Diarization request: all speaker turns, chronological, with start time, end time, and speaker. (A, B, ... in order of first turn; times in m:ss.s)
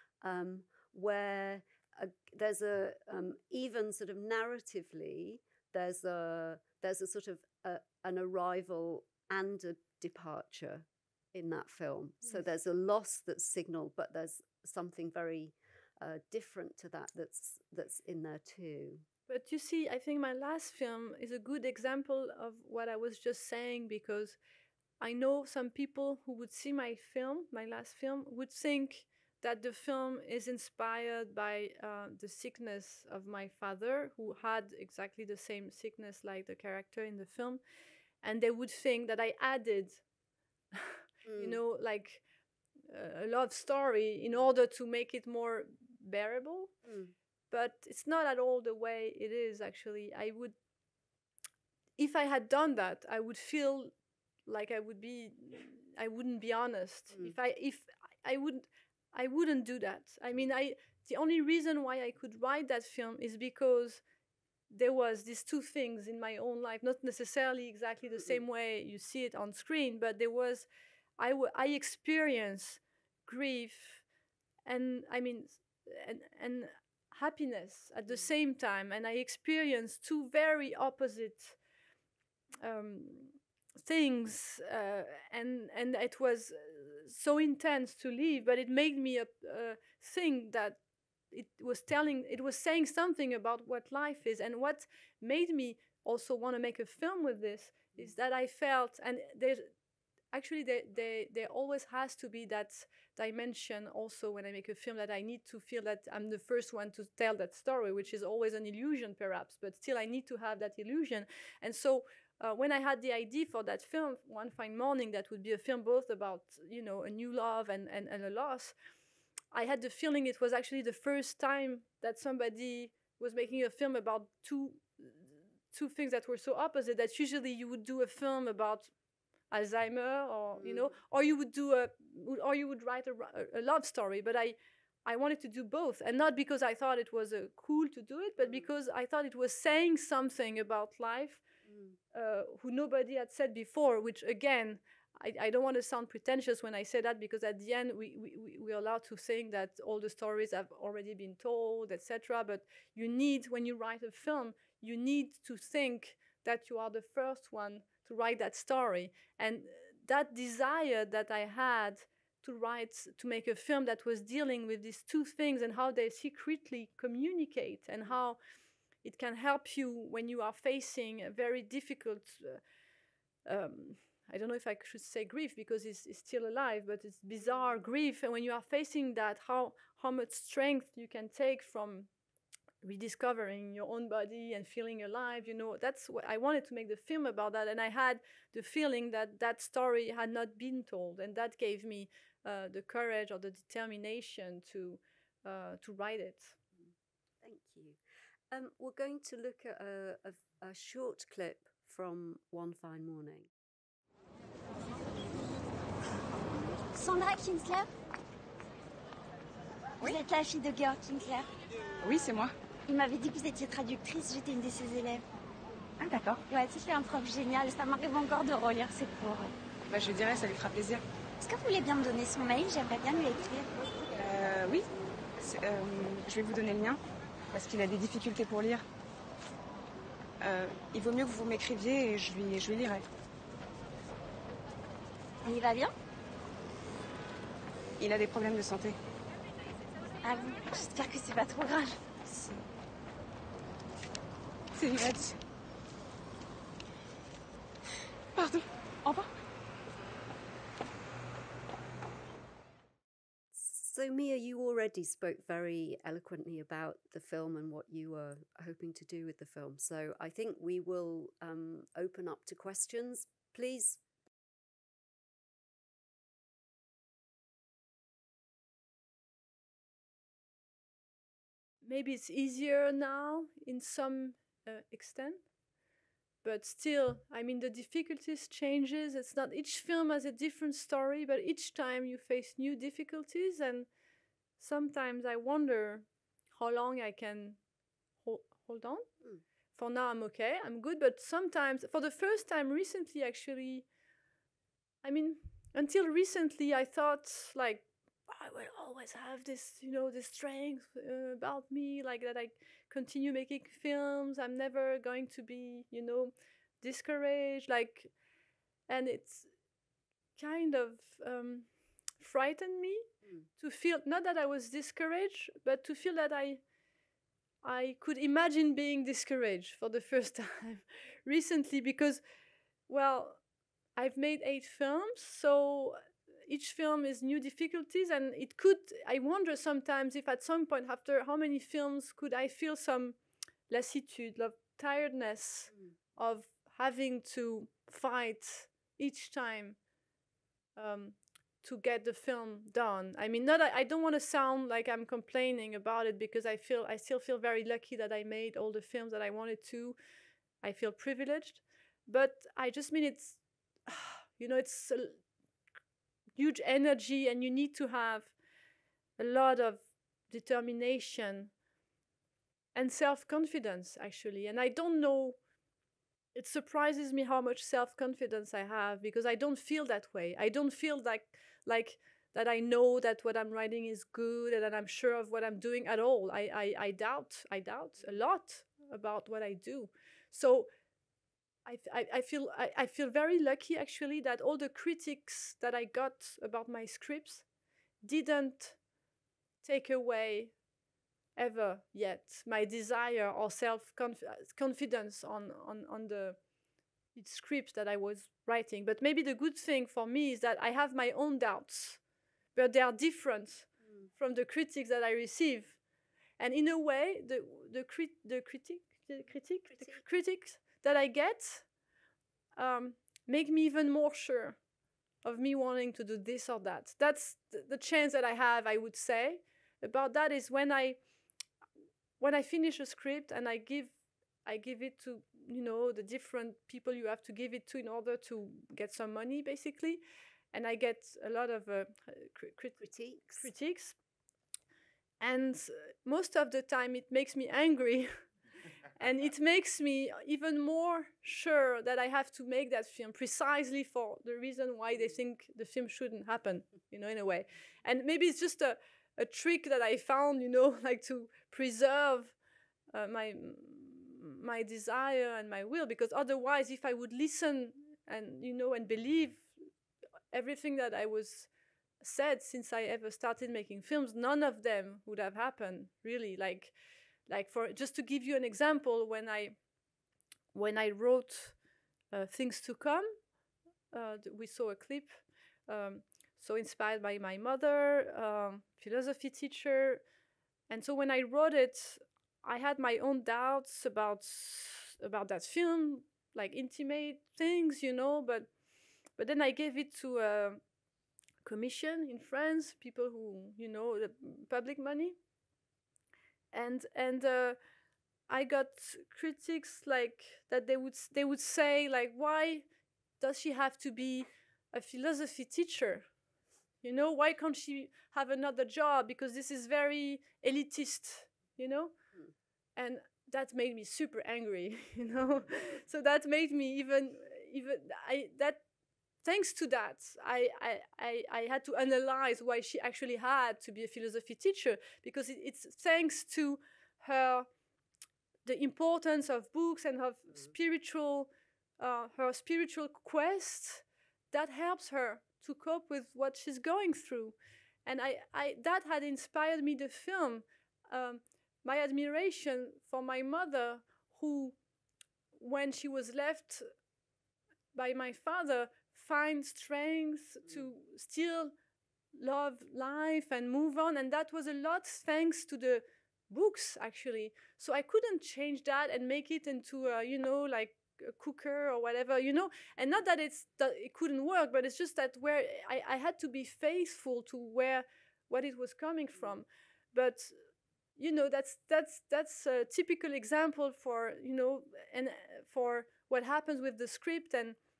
0:00.2-0:19.0 A
0:19.3-0:24.4 B
0:25.0-0:37.6 B
0:38.2-0:40.0 B
0:40.7-0:42.2 B
0:41.2-0:41.6 A
0:42.9-0:46.7 B
0:46.8-0:47.1 A
0:47.5-0:50.5 B
0:52.0-0:53.9 B
0:54.4-1:04.0 B
1:04.7-1:14.0 B
1:14.6-1:21.6 B
1:22.6-1:30.8 B
1:31.3-1:39.7 B
1:40.3-1:58.7 B
1:59.5-2:08.9 B
2:09.5-2:21.4 B
2:10.6-2:10.9 A
2:18.4-2:18.7 A
2:21.6-2:22.0 A
2:22.1-2:48.4 B
2:49.0-2:52.6 B
2:53.4-3:02.1 B
3:02.8-3:16.6 B
3:17.4-3:18.0 A
3:18.5-3:23.5 A
3:26.9-3:27.9 C
3:30.0-3:31.5 C
3:32.0-3:32.5 D
3:32.9-3:35.2 C
3:36.0-3:36.4 D
3:36.4-3:39.5 C
3:39.9-3:41.0 D
3:41.4-3:43.7 C
3:44.2-3:44.8 D
3:45.4-3:47.0 D
3:47.5-3:48.8 D
3:50.4-3:53.0 D
3:55.4-3:55.9 C
3:58.0-3:59.0 D
4:00.2-4:02.0 C
4:02.2-4:02.6 D
4:04.8-4:05.4 D
4:08.4-4:09.3 D
4:13.5-4:24.0 A
4:31.8-4:35.4 B
4:36.4-4:43.9 B
4:44.6-4:47.6 B
4:48.2-4:49.1 B
4:49.7-4:53.8 B
4:55.0-5:08.1 B
5:08.9-5:09.5 B
5:10.4-5:11.7 B
5:12.2-5:16.6 B
5:17.6-5:22.2 B
5:22.9-5:23.4 B
5:24.0-5:33.2 B
5:33.7-5:39.8 B
5:40.8-5:50.0 B
5:50.6-5:55.2 B
5:56.4-5:58.3 B
5:59.2-6:01.5 B
6:02.7-6:05.4 B
6:06.3-6:20.7 B
6:21.6-6:27.4 B
6:28.0-6:28.8 B
6:29.6-6:30.5 B
6:31.4-6:36.4 B
6:37.1-6:42.0 B
6:42.5-6:45.8 B
6:46.4-6:51.7 B
6:49.7-6:50.0 A
6:52.6-6:54.6 B
6:55.2-7:01.0 B
7:02.2-7:03.9 B
7:04.4-7:10.0 B
7:10.5-7:14.0 B
7:12.8-7:13.5 A
7:15.2-7:18.1 B
7:19.0-7:32.3 B
7:32.9-7:39.5 B
7:40.3-7:41.5 B
7:42.0-7:46.7 B
7:47.3-7:49.6 B
7:50.5-7:51.6 B
7:52.1-7:53.1 B
7:53.9-8:00.0 B
8:00.7-8:08.5 B
8:09.2-8:10.6 B
8:11.4-8:15.2 B
8:16.5-8:17.6 B
8:18.3-8:22.6 B
8:23.2-8:26.0 B
8:26.8-8:31.9 B
8:32.8-8:38.6 B
8:39.2-8:47.5 B
8:48.4-9:04.6 B
9:05.4-9:06.6 B
9:07.7-9:11.5 B
9:12.1-9:30.3 B
9:31.0-9:37.6 B